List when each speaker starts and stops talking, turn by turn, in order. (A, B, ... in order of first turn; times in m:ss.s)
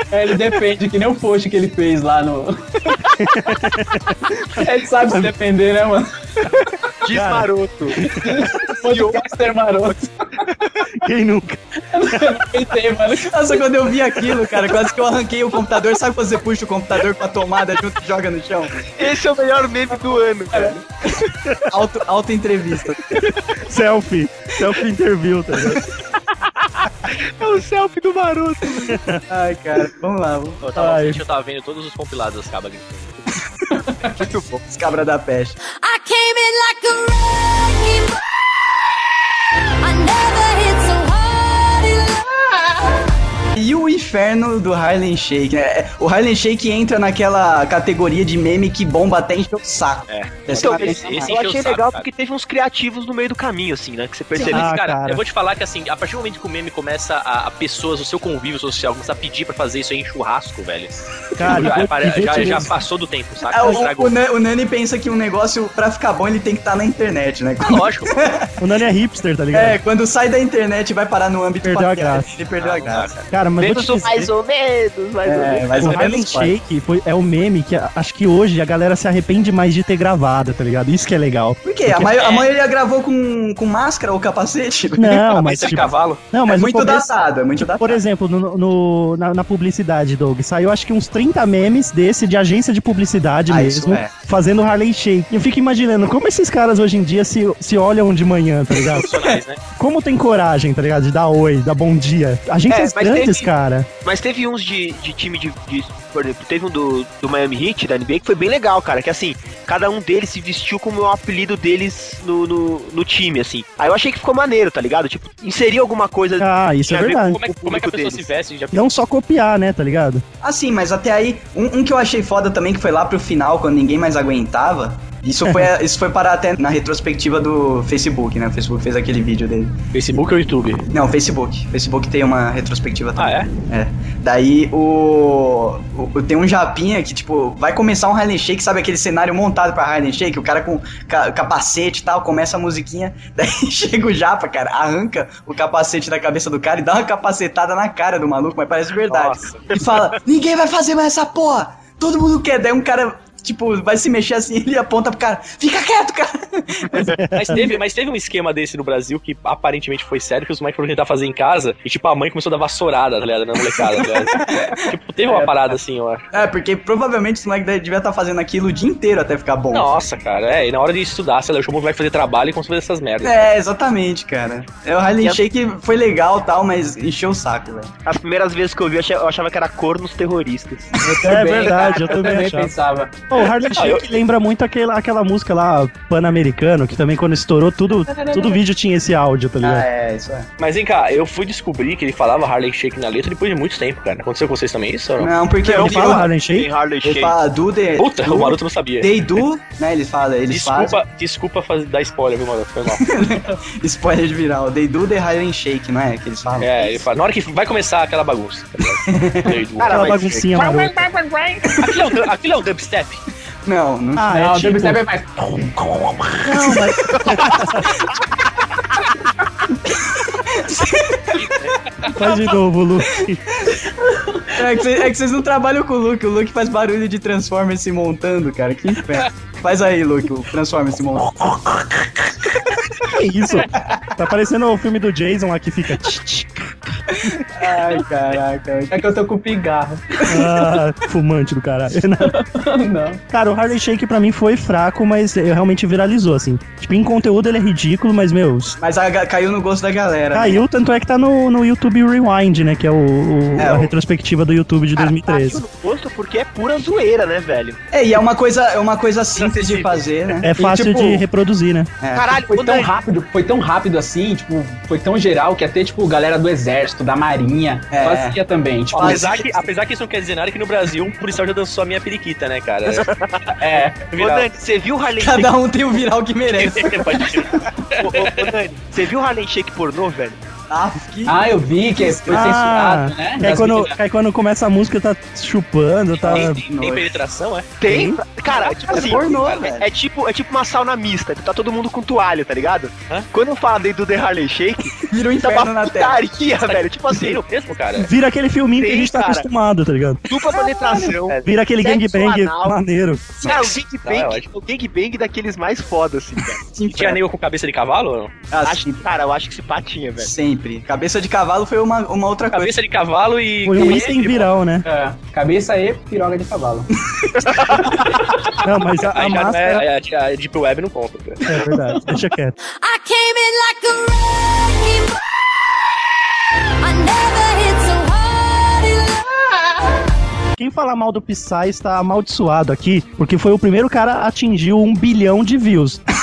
0:00.1-0:03.0 A
0:03.2-0:05.3 B
0:04.5-0:06.7 A
0:07.0-0:08.1 C
0:07.1-0:08.4 B
0:08.1-0:10.5 A
0:08.6-0:09.3 C
0:10.5-0:10.8 C
0:10.9-0:12.5 B
0:11.9-0:13.6 A
0:13.2-0:18.9 D
0:18.9-0:20.8 C
0:21.7-0:23.2 D
0:23.6-0:25.8 B
0:26.4-0:28.8 C
0:28.8-0:30.6 D
0:28.9-0:29.2 B
0:30.6-0:33.4 E
0:30.8-0:31.2 B
0:34.2-0:34.6 C
0:34.7-0:35.6 D
0:35.8-0:38.2 F
0:39.8-0:42.8 F
0:43.6-0:51.3 D
0:50.1-0:52.1 E
0:50.5-0:54.6 C
0:54.4-1:04.1 E
0:54.4-0:55.2 B
1:01.4-1:02.8 B
1:03.5-1:08.6 D
1:07.6-1:08.1 E
1:08.6-1:09.8 B
1:09.5-1:13.1 D
1:11.6-1:12.3 B
1:12.6-1:13.3 E
1:13.3-1:14.3 B
1:13.6-1:15.9 C
1:15.2-1:16.6 D
1:15.8-1:22.1 B
1:21.6-1:25.4 D
1:22.0-1:22.5 E
1:25.0-1:27.1 B
1:25.3-1:26.2 E
1:26.5-1:28.0 D
1:27.8-1:39.1 B
1:33.5-1:34.1 D
1:38.9-1:39.6 E
1:39.8-1:43.9 B
1:42.7-1:43.5 C
1:44.0-1:58.3 C
1:56.4-1:57.4 B
1:56.9-1:59.0 E
1:58.7-2:00.2 B
2:00.4-2:09.8 D
2:09.9-2:10.9 E
2:10.9-2:37.6 D
2:13.2-2:13.5 E
2:29.1-2:30.0 E
2:37.1-2:37.6 B
2:37.3-2:46.3 E
2:43.8-2:45.6 D
2:46.3-2:49.9 D
2:49.7-2:53.5 E
2:53.2-2:57.9 D
2:58.1-3:00.9 C
3:01.0-3:03.2 A
3:01.0-3:01.4 D
3:01.2-3:02.7 B
3:01.6-3:02.1 C
3:03.3-3:09.9 B
3:03.7-3:04.1 E
3:08.1-3:08.6 A
3:09.6-3:10.5 D
3:10.6-3:15.3 E
3:15.2-3:16.3 D
3:15.6-3:17.4 C
3:15.7-3:16.7 B
3:17.0-3:21.0 D
3:18.0-3:19.4 E
3:20.5-3:23.1 E
3:22.9-3:27.0 D
3:26.6-3:30.2 E
3:29.1-3:29.6 D
3:29.8-3:31.6 C
3:29.9-3:31.0 B
3:31.6-3:33.2 E
3:31.8-3:32.1 D
3:33.6-3:34.3 D
3:34.2-3:35.0 B
3:34.3-3:36.7 A
3:36.4-3:37.9 B
3:39.9-3:41.7 D
3:41.4-3:42.2 E
3:42.1-3:43.4 B
3:44.0-3:44.6 A
3:44.6-3:51.4 D
3:53.0-3:56.7 B
3:53.8-3:54.0 D
3:57.1-3:59.0 D
3:58.9-4:00.2 A
4:00.3-4:02.4 B
4:02.2-4:03.2 A
4:03.3-4:08.8 B
4:08.8-4:10.6 D
4:10.3-4:15.6 B
4:13.6-4:13.9 D
4:15.0-4:17.8 C
4:17.9-4:20.5 D
4:19.4-4:20.1 E
4:20.4-4:21.9 B
4:20.6-4:21.2 A
4:22.0-4:22.3 D
4:22.1-4:22.9 C
4:22.5-4:29.2 A
4:27.9-4:28.4 D
4:28.9-4:33.1 E
4:28.9-4:29.7 D
4:32.9-4:33.5 C
4:33.6-4:34.1 A
4:34.1-4:34.5 E
4:34.2-4:35.5 C
4:35.2-4:37.6 D
4:36.5-4:38.5 E
4:38.0-4:40.4 C
4:40.7-4:42.6 D
4:41.3-4:44.0 A
4:42.3-4:46.6 B
4:46.2-4:47.7 E
4:46.2-4:47.1 D
4:47.8-4:57.4 C
4:47.9-4:48.2 B
4:48.5-4:49.7 E
4:48.9-4:49.9 D
4:55.0-4:56.2 D
4:56.6-4:58.1 E
4:58.0-5:00.2 B
4:58.8-4:59.5 C
5:00.3-5:02.8 C
5:00.7-5:01.0 A
5:01.4-5:03.4 B
5:03.4-5:06.6 C
5:03.5-5:04.5 E
5:06.6-5:07.2 D
5:06.9-5:08.3 E
5:08.5-5:09.1 D
5:08.6-5:10.3 C
5:10.2-5:12.8 D
5:12.5-5:14.5 E
5:13.6-5:14.9 B
5:14.9-5:16.9 A
5:17.2-5:17.7 D
5:17.7-5:18.4 E
5:18.6-5:19.8 B
5:19.0-5:21.6 E
5:21.5-5:22.6 B
5:22.8-5:25.2 F
5:26.8-5:29.8 F
5:30.6-5:36.0 B